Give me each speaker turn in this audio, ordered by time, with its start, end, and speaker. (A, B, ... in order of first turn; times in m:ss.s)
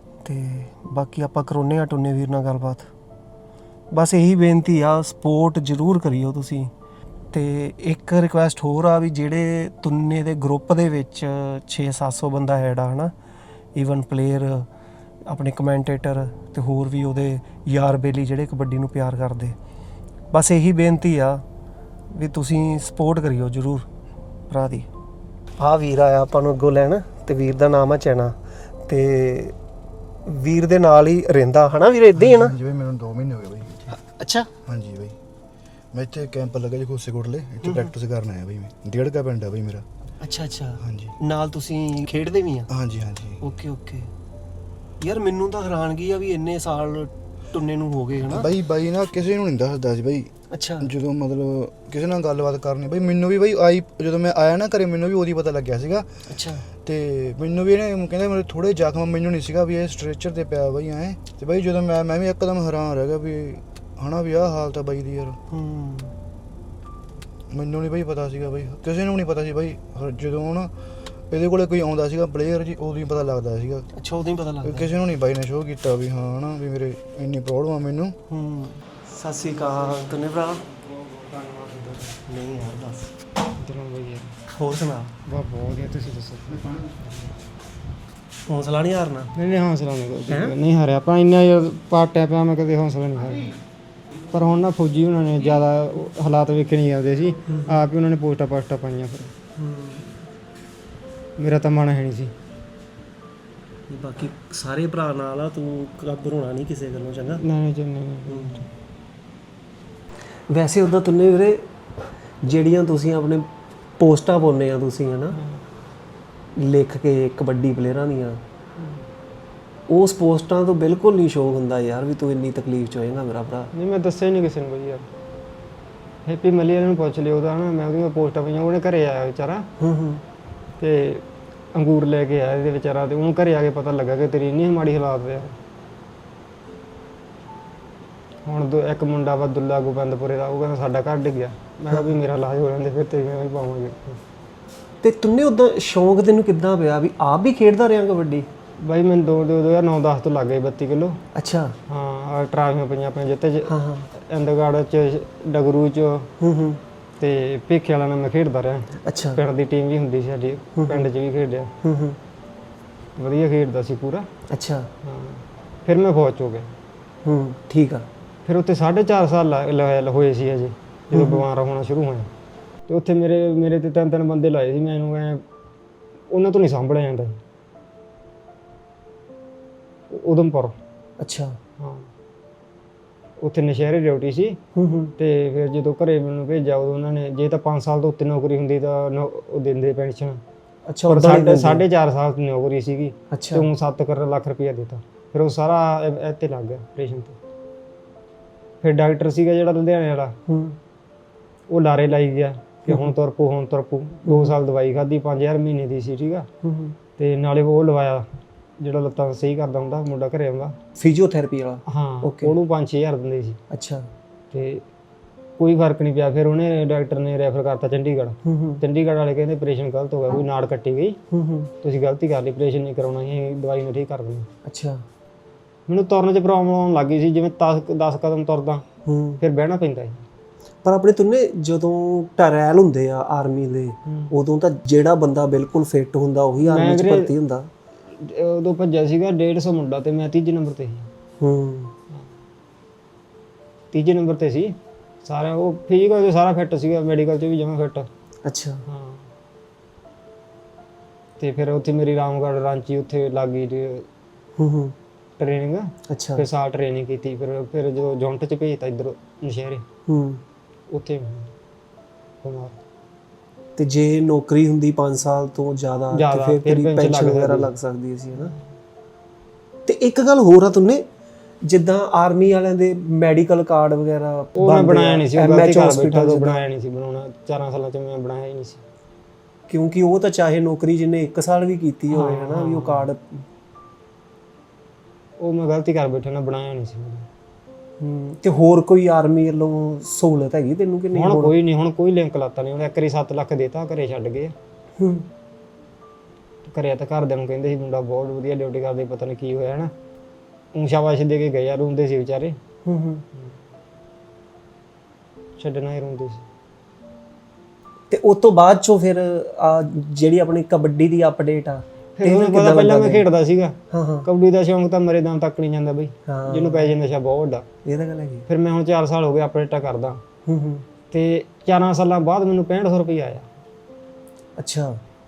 0:00.2-0:02.9 A
0:03.9-0:06.7 A
0:07.3-0:13.1 A
0:13.7-0:14.7 A
0:15.3-0:19.6 A
0:20.3-0:21.4 A
0:22.1-0:23.9 A
0:24.5-0:24.9 A
0:25.6-0:29.6 A
0:30.2-0:32.6 A
0:32.2-0:34.0 B
0:33.9-0:34.5 A
0:34.6-0:35.2 B
0:35.9-0:39.9 B
0:37.6-0:37.9 A
0:40.2-0:42.7 A
0:40.8-0:41.2 B
0:42.7-0:43.4 B
0:43.4-0:44.1 A
0:45.0-0:48.5 A
0:48.3-1:05.4 B
0:50.5-0:50.9 A
0:56.3-0:56.6 A
1:05.5-1:06.1 A
1:07.5-1:13.9 B
1:13.9-1:14.9 A
1:14.6-1:18.2 B
1:18.3-1:20.7 A
1:20.8-1:22.2 C
1:22.3-1:23.1 A
1:23.6-1:24.4 C
1:24.5-1:25.2 A
1:25.2-1:27.3 C
1:28.5-1:29.3 A
1:29.4-1:33.6 C
1:30.3-1:30.6 A
1:34.3-1:39.3 C
1:37.5-1:37.8 A
1:39.6-1:40.2 A
1:41.4-1:42.3 C
1:43.9-1:47.4 A
1:47.4-1:48.7 C
1:48.3-1:48.7 A
1:50.5-1:51.7 A
1:52.4-1:53.5 A
1:54.0-1:55.4 A
1:55.4-1:55.6 C
1:56.6-1:58.4 A
1:59.9-2:03.7 A
2:03.7-2:05.1 C
2:06.2-2:09.7 C
2:09.8-2:10.2 A
2:10.8-2:15.6 C
2:18.4-2:24.2 C
2:25.0-2:28.5 A
2:28.8-2:31.2 C
2:31.3-2:31.8 A
2:31.9-2:36.3 C
2:33.7-2:34.1 A
2:36.4-2:36.8 A
2:37.2-2:41.7 C
2:39.0-2:39.4 A
2:40.8-2:41.1 A
2:41.8-2:42.2 A
2:43.2-2:44.3 C
2:44.5-2:44.9 A
2:45.0-2:46.7 C
2:47.2-2:48.1 A
2:48.5-2:52.3 C
2:51.1-2:51.4 A
2:52.9-2:55.4 C
2:56.3-2:57.4 C
3:00.1-3:00.8 C
3:01.2-3:01.6 A
3:01.8-3:02.1 C
3:03.4-3:04.6 C
3:04.8-3:05.1 A
3:05.2-3:10.4 C
3:10.9-3:11.8 A
3:11.1-3:17.4 C
3:13.3-3:13.7 A
3:18.8-3:20.4 C
3:20.5-3:20.8 A
3:21.7-3:26.5 C
3:24.3-3:24.5 A
3:26.6-3:27.0 A
3:27.2-3:28.3 C
3:28.8-3:30.8 C
3:31.0-3:32.5 A
3:31.9-3:33.6 C
3:33.7-3:34.1 A
3:34.5-3:34.8 C
3:35.6-3:41.2 C
3:38.4-3:38.8 A
3:41.3-3:41.7 A
3:41.8-3:44.5 C
3:44.6-3:45.0 A
3:45.9-3:48.8 C
3:49.1-3:49.4 A
3:49.4-3:50.2 C
3:50.8-3:57.7 A
3:54.1-3:54.3 C
3:56.6-3:57.3 C
3:58.1-4:01.1 C
4:01.4-4:01.9 A
4:03.9-4:08.1 C
4:08.4-4:08.8 A
4:08.9-4:09.3 C
4:11.4-4:14.1 C
4:14.6-4:15.0 A
4:15.4-4:19.8 C
4:16.1-4:16.5 A
4:20.1-4:20.4 A
4:20.9-4:21.5 C
4:22.4-4:22.8 C
4:23.8-4:28.5 A
4:26.1-4:27.7 C
4:29.9-4:31.1 A
4:31.6-4:36.6 A
4:34.6-4:38.8 C
4:39.7-4:43.4 A
4:42.1-4:43.1 C
4:45.4-4:47.3 C
4:48.0-4:51.5 A
4:51.1-4:54.6 C
4:55.0-4:55.3 A
4:56.6-4:59.9 C
5:00.7-5:02.6 C
5:02.8-5:03.3 A
5:05.6-5:06.4 C
5:08.1-5:13.3 A
5:12.2-5:17.7 C
5:13.9-5:14.3 A
5:16.3-5:16.9 A
5:17.8-5:18.5 A
5:18.5-5:20.2 C
5:20.5-5:20.9 A
5:21.1-5:23.5 C
5:24.6-5:25.0 A